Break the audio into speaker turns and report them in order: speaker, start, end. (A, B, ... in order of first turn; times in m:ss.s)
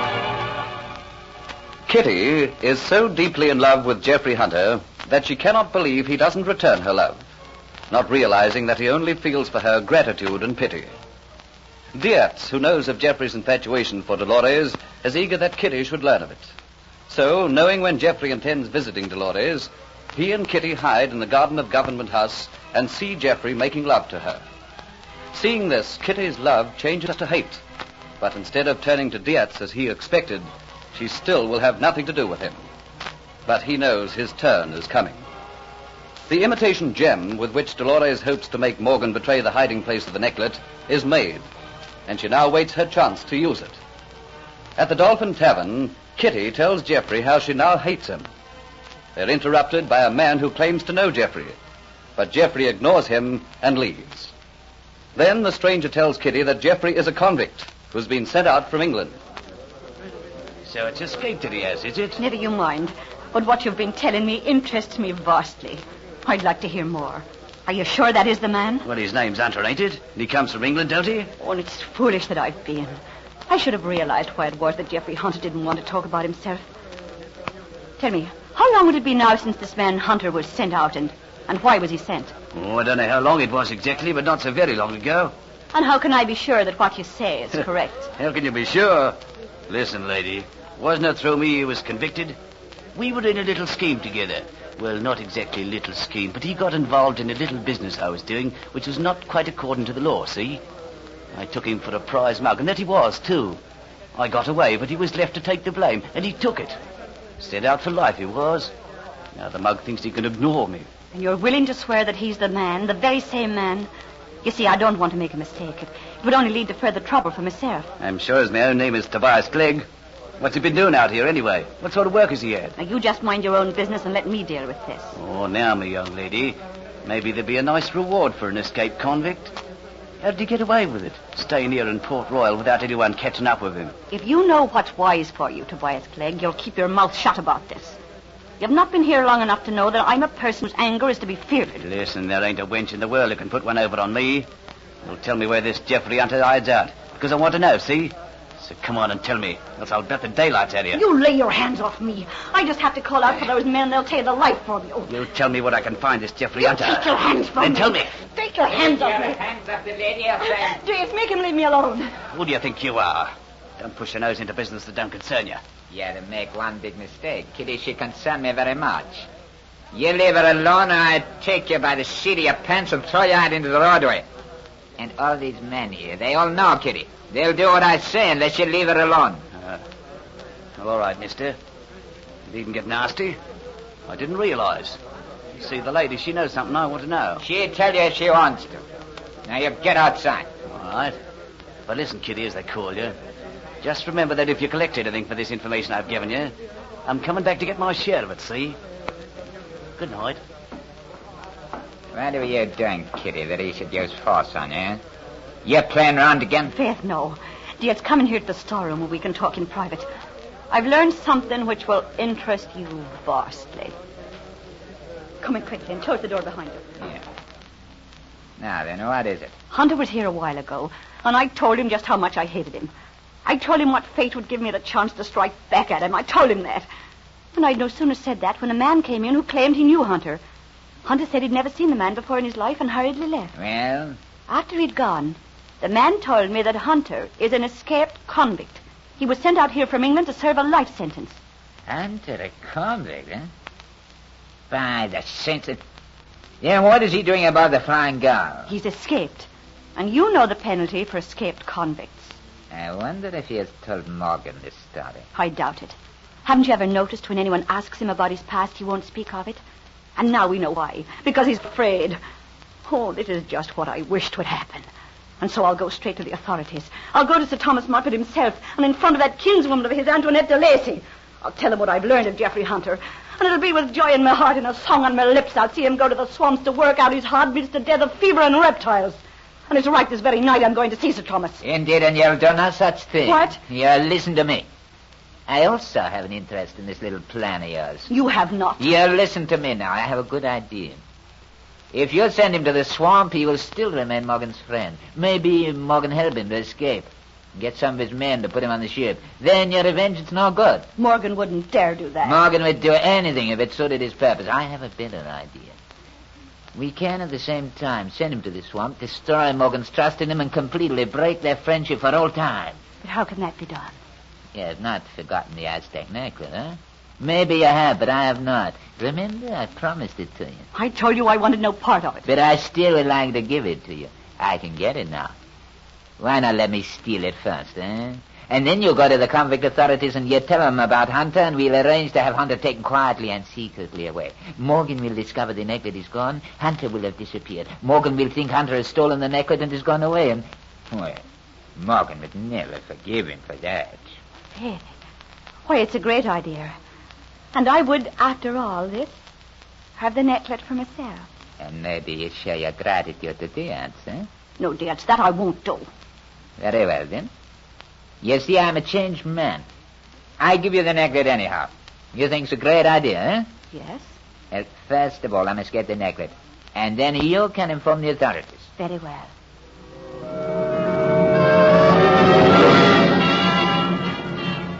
0:01.9-0:07.2 A
0:07.9-0:10.9 A
0:09.8-0:10.4 B
0:11.9-0:14.2 B
0:12.1-0:16.3 A
0:17.1-0:24.4 A
0:25.3-0:27.6 A
0:28.2-0:32.6 A
0:33.4-0:35.2 A
0:36.3-0:41.5 A
0:42.1-0:43.8 A
0:44.8-0:48.3 A
0:49.1-0:51.6 A
0:52.2-0:54.3 A
0:55.1-0:59.2 A
1:00.6-1:02.2 B
1:02.2-1:08.9 C
1:08.8-1:11.3 B
1:11.4-1:16.7 C
1:18.0-1:22.3 C
1:22.5-1:25.3 B
1:25.7-1:28.1 C
1:28.2-1:29.2 B
1:29.7-1:32.4 B
1:32.9-1:40.6 B
1:41.3-1:43.6 B
1:44.1-1:46.8 B
1:47.4-1:48.7 B
1:49.3-1:50.9 B
1:51.1-1:53.9 C
1:54.4-1:57.9 C
1:58.0-1:59.8 B
2:00.4-2:02.7 B
2:02.8-2:05.2 C
2:05.1-2:09.6 B
2:10.2-2:13.9 B
2:14.1-2:18.0 C
2:18.6-2:21.8 C
2:21.8-2:24.5 B
2:25.0-2:31.0 B
2:30.9-2:35.1 C
2:35.1-2:38.2 B
2:36.6-2:39.4 C
2:38.7-2:40.8 D
2:40.4-2:42.1 C
2:42.3-2:45.6 B
2:45.9-2:49.3 D
2:49.9-2:54.2 D
2:55.0-2:59.4 D
3:00.8-3:01.6 B
3:02.5-3:03.4 B
3:04.1-3:05.0 B
3:05.6-3:07.4 B
3:07.4-3:08.8 D
3:09.5-3:10.5 D
3:10.7-3:11.2 B
3:11.9-3:13.1 B
3:13.8-3:16.5 B
3:17.0-3:18.8 B
3:20.0-3:20.4 B
3:22.1-3:25.0 D
3:25.6-3:26.7 D
3:26.7-3:30.0 C
3:30.7-3:34.0 C
3:35.4-3:36.8 C
3:38.6-3:39.5 D
3:39.7-3:42.9 C
3:43.4-3:46.9 C
3:47.5-3:50.4 C
3:51.0-3:53.5 C
3:53.6-3:54.2 D
3:54.5-4:01.4 C
4:01.9-4:03.5 D
4:04.7-4:05.8 D
4:06.6-4:08.7 D
4:08.7-4:12.4 C
4:12.7-4:15.2 D
4:15.3-4:19.6 C
4:20.2-4:22.2 C
4:22.8-4:24.9 C
4:25.4-4:41.6 C
4:41.6-4:44.7 D
4:43.2-4:43.6 C
4:45.5-4:48.1 D
4:48.1-4:48.8 C
4:48.8-4:51.0 D
4:51.9-5:00.8 D
5:01.0-5:02.4 C
5:02.2-5:05.8 D
5:06.7-5:12.8 D
5:13.0-5:14.0 C
5:14.5-5:20.6 D
5:20.7-5:22.2 C
5:22.2-5:25.3 D
5:26.2-5:41.2 D
5:41.8-5:44.1 D
5:44.5-5:45.0 C
5:45.6-5:46.7 C
5:47.5-5:49.2 C
5:50.0-5:51.3 C
5:51.6-5:54.3 D
5:54.6-5:55.9 C
5:56.6-5:57.3 D
5:58.2-5:59.6 D
6:00.4-6:03.5 D
6:03.7-6:04.2 C
6:04.5-6:08.7 D
6:08.8-6:09.3 C